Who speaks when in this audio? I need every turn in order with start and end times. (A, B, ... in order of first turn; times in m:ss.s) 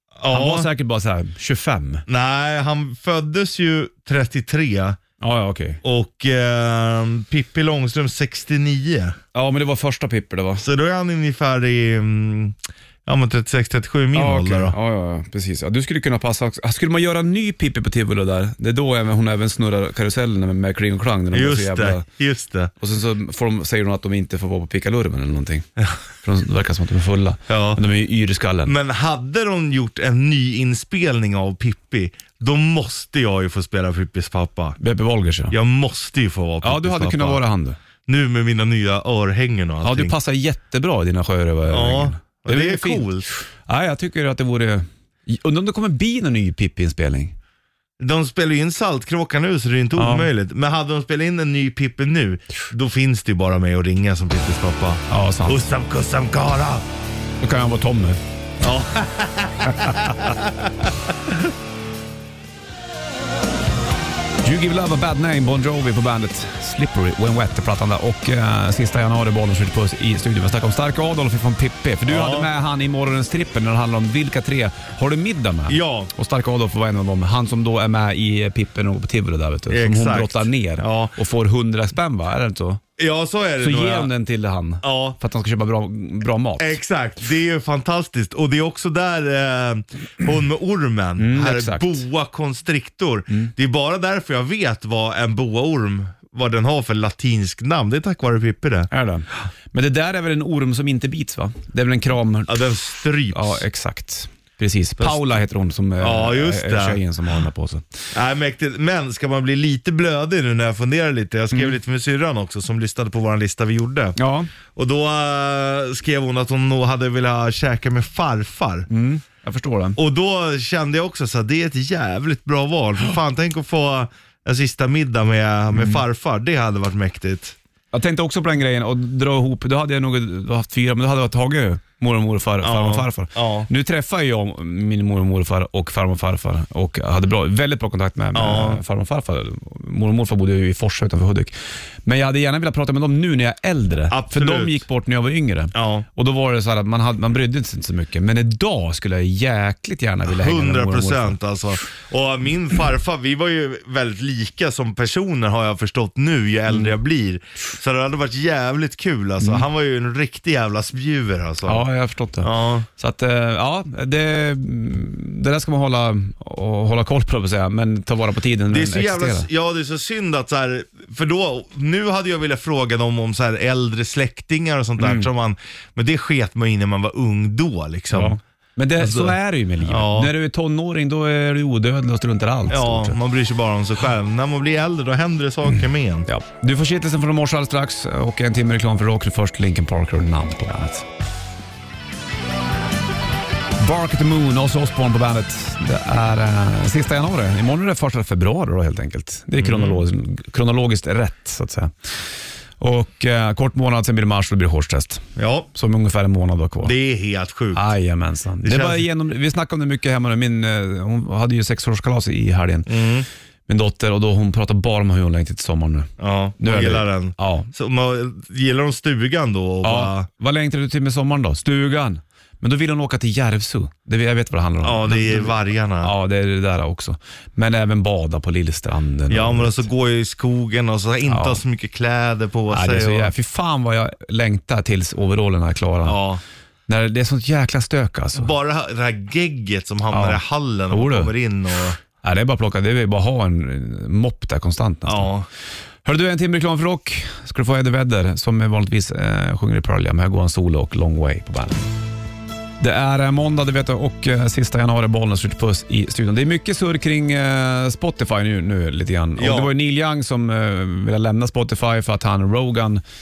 0:00.2-0:00.7 A
0:00.3-0:02.0 B
0:02.1-0:05.0 A
0:05.2-0:05.8 B
0:05.8-0:09.2 A
0:09.3-0:10.6 B
0:10.6-0:14.8 A
0:14.1-0:22.0 B
0:21.3-0:22.7 A
0:22.8-0:25.7 B
0:26.2-0:28.7 B
0:27.5-0:27.8 A
0:28.6-0:34.8 A
0:34.8-0:35.6 B
0:35.5-0:37.4 A
0:36.6-0:37.8 B
0:38.0-0:40.1 A
0:39.8-0:43.1 B
0:41.7-0:43.3 A
0:43.6-0:47.3 B
0:48.0-0:56.8 A
0:50.0-0:50.3 B
0:55.1-0:55.7 B
0:57.4-0:58.2 B
0:58.6-1:00.9 A
0:59.7-1:00.1 B
1:04.4-1:22.8 B
1:12.1-1:12.5 A
1:15.7-1:16.1 A
1:19.7-1:21.1 A
1:23.0-1:24.1 A
1:23.6-1:26.8 B
1:24.8-1:25.2 A
1:26.6-1:38.9 A
1:31.2-1:32.0 B
1:38.9-1:42.5 B
1:42.5-1:43.6 A
1:43.3-1:47.8 B
1:46.0-1:47.0 A
1:48.1-1:54.2 A
1:54.2-1:54.5 B
1:54.7-1:58.9 A
1:58.9-2:00.0 B
2:00.0-2:07.6 A
2:05.7-2:06.0 B
2:07.9-2:21.5 B
2:12.6-2:13.7 A
2:18.3-2:18.8 A
2:22.0-2:31.4 B
2:24.1-2:24.8 A
2:25.7-2:26.0 A
2:30.2-2:41.8 A
2:39.4-2:39.6 B
2:41.6-2:49.5 B
2:42.4-2:42.9 A
2:48.7-2:58.4 A
2:55.0-2:55.3 B
2:58.1-3:03.2 B
2:59.0-3:00.3 A
3:02.7-3:06.3 A
3:06.3-3:11.1 B
3:13.8-3:21.9 B
3:19.6-3:20.0 A
3:22.8-3:26.9 B
3:25.4-3:25.7 A
3:26.8-3:27.9 A
3:27.7-3:33.0 B
3:28.6-3:29.0 A
3:32.9-3:33.3 A
3:33.7-3:37.7 B
3:36.2-3:40.3 A
3:39.8-3:49.8 B
3:44.8-3:46.1 A
3:49.3-3:53.3 A
3:51.2-3:51.6 B
3:52.7-3:56.2 B
3:56.0-3:56.4 A
3:56.9-3:58.5 B
3:58.3-4:02.0 A
4:00.1-4:01.3 B
4:02.2-4:05.3 B
4:05.0-4:05.5 A
4:06.0-4:11.9 B
4:12.8-4:23.0 B
4:19.4-4:19.7 A